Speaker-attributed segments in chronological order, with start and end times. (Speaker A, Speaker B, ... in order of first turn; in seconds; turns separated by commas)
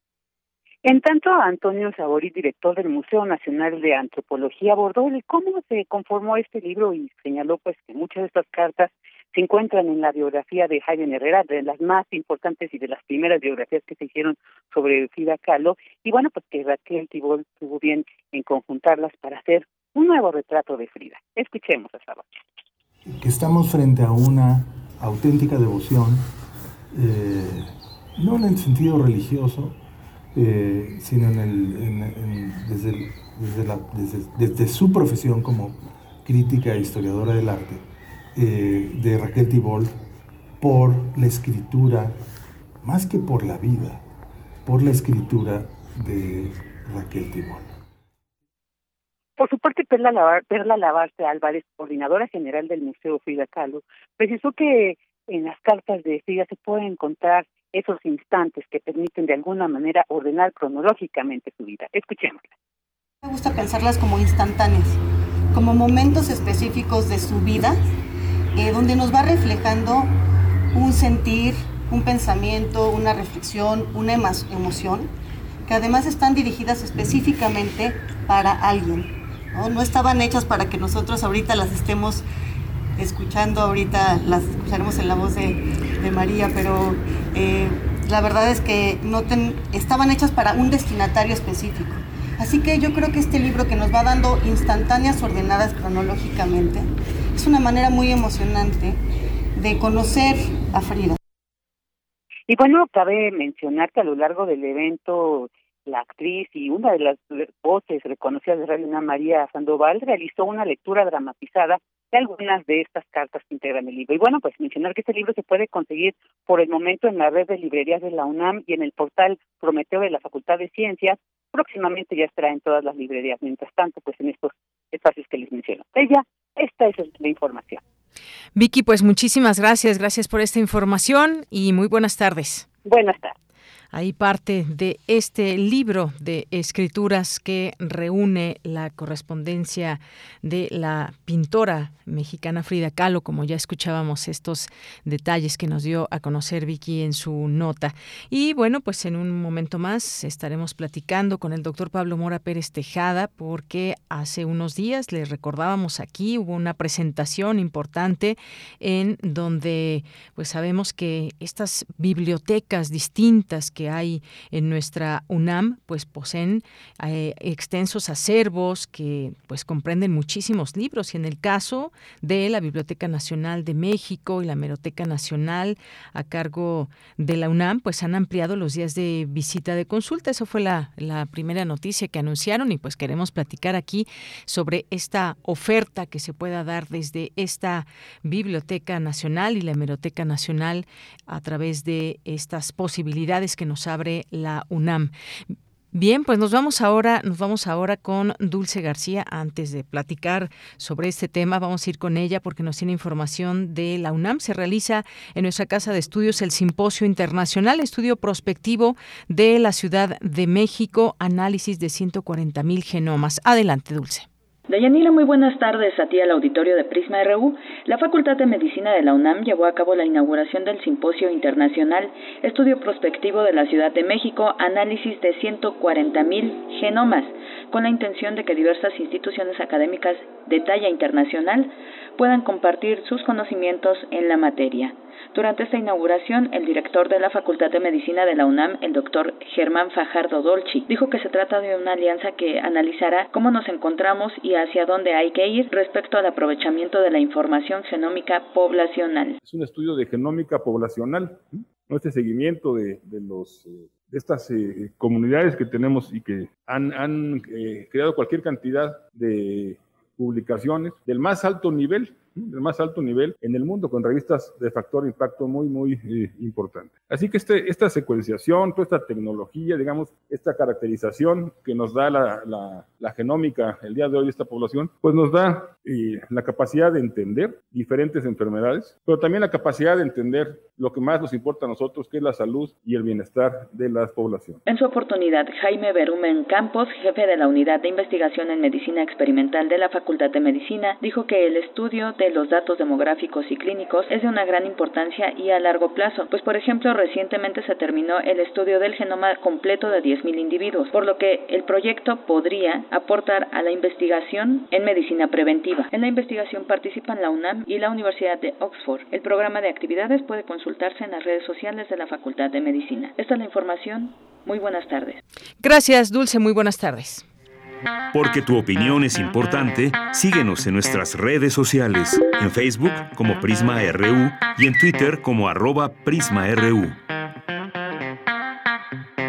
Speaker A: 0.8-22.4, Speaker B: 23.1-26.3, Speaker B: 26.9-29.8, Speaker B: 30.3-40.0, Speaker B: 40.6-42.2, Speaker B: 42.8-44.0, Speaker B: 44.6-47.7, Speaker A: 49.4-62.5, Speaker C: 63.2-65.0, Speaker C: 65.5-67.8, Speaker C: 68.5-70.2, Speaker C: 70.7-75.1, Speaker C: 75.7-82.2, Speaker C: 83.0-99.0, Speaker C: 99.5-101.2, Speaker A: 102.5-127.8, Speaker D: 128.5-132.7, Speaker A: 132.8-133.3, Speaker D: 133.9-195.1, Speaker D: 195.9-214.3, Speaker E: 214.7-249.4, Speaker F: 249.4-284.6, Speaker E: 284.6-315.2, Speaker D: 315.6-317.2, Speaker G: 318.1-327.0